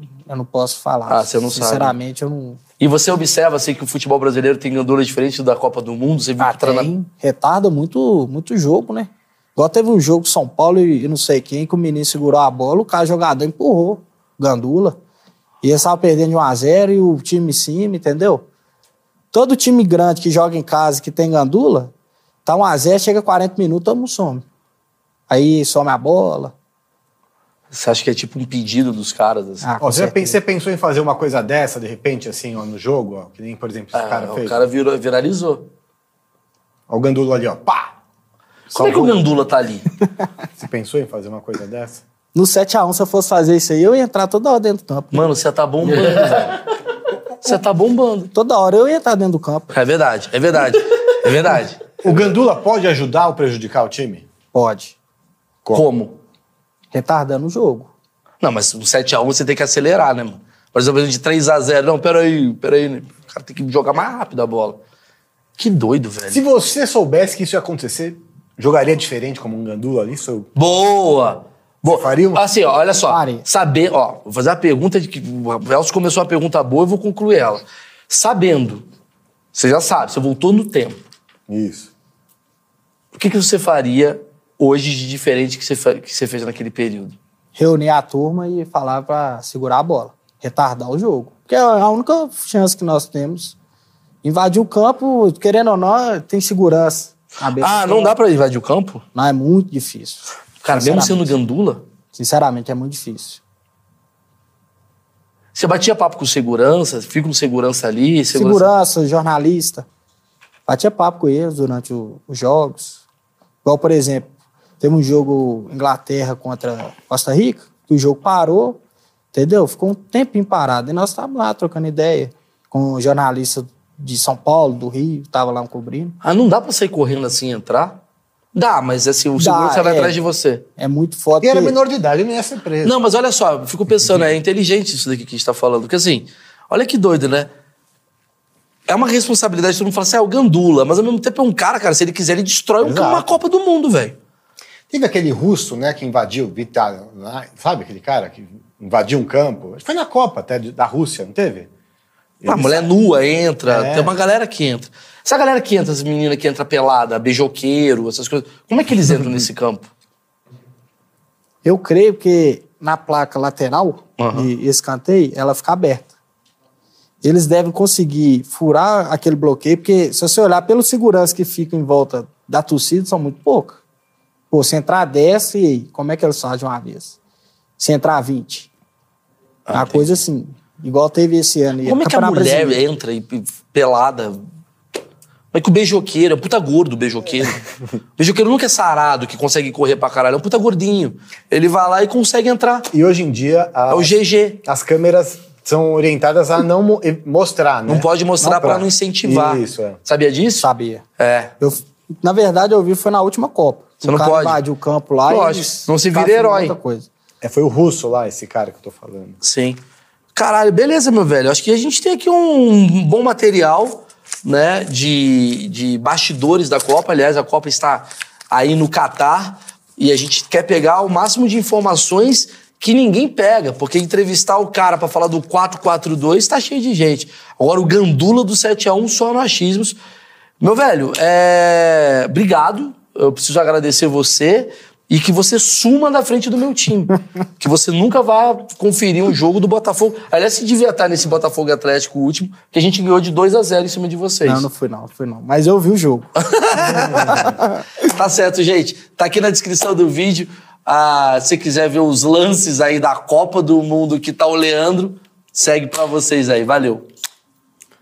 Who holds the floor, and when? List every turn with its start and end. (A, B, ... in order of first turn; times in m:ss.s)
0:00.2-0:02.6 A
0:01.1-0:02.0 B
0:02.8-0:06.9 B
0:06.4-0:15.0 A
0:15.6-0:18.4 A
0:19.3-0:21.9 A
0:22.4-0:24.4 A
0:25.3-0:26.5 A
0:27.7-0:29.7 B
0:29.6-0:30.4 A
0:29.8-0:34.6 C
0:33.9-0:35.7 B
0:36.9-0:37.9 C
0:38.7-0:39.8 B
0:38.7-0:39.2 C
0:40.6-0:42.0 C
0:42.3-0:45.3 A
0:45.1-0:46.6 B
0:47.4-0:48.3 B
0:48.3-0:49.7 A
0:49.7-0:52.3 B
0:52.0-0:54.2 C
0:54.5-0:54.9 A
0:55.7-0:56.2 B
0:56.9-0:57.9 A
0:58.4-1:04.8 B
1:05.6-1:06.4 B
1:06.3-1:10.5 C
1:10.6-1:18.8 B
1:11.8-1:12.4 C
1:13.1-1:13.4 A
1:19.5-1:21.0 B
1:21.5-1:21.9 C
1:23.1-1:27.2 B
1:27.5-1:33.5 A
1:34.2-1:38.2 A
1:37.6-1:39.0 B
1:39.1-1:41.3 A
1:40.6-1:41.8 B
1:42.1-1:43.4 A
1:45.5-1:48.7 B
1:48.3-1:49.8 A
1:50.7-1:53.0 A
1:53.6-1:54.3 A
1:54.8-1:58.8 A
1:59.3-2:06.2 A
2:06.2-2:08.0 B
2:08.5-2:10.6 B
2:09.4-2:10.2 A
2:10.8-2:11.8 A
2:11.4-2:13.0 C
2:12.8-2:17.5 B
2:18.9-2:24.2 B
2:22.8-2:23.4 C
2:24.9-2:31.7 C
2:32.4-2:32.9 C
2:32.4-2:39.9 B
2:33.7-2:34.1 C
2:41.6-2:46.1 A
2:44.2-2:44.5 B
2:47.2-2:53.8 A
2:54.5-2:57.2 A
2:57.8-2:58.7 A
2:59.7-3:00.2 B
2:59.7-3:02.8 A
3:01.8-3:04.4 B
3:05.5-3:07.6 B
3:08.2-3:12.9 B
3:12.9-3:20.0 C
3:13.9-3:14.6 B
3:17.9-3:20.7 B
3:20.6-3:21.0 A
3:21.2-3:21.5 B
3:21.6-3:27.1 A
3:24.0-3:24.6 B
3:25.3-3:26.7 B
3:27.4-3:29.4 C
3:29.4-3:29.8 B
3:30.3-3:50.0 B
3:50.6-4:04.6 B
4:04.4-4:06.3 A
4:06.4-4:07.5 B
4:06.8-4:07.8 A
4:08.0-4:17.0 B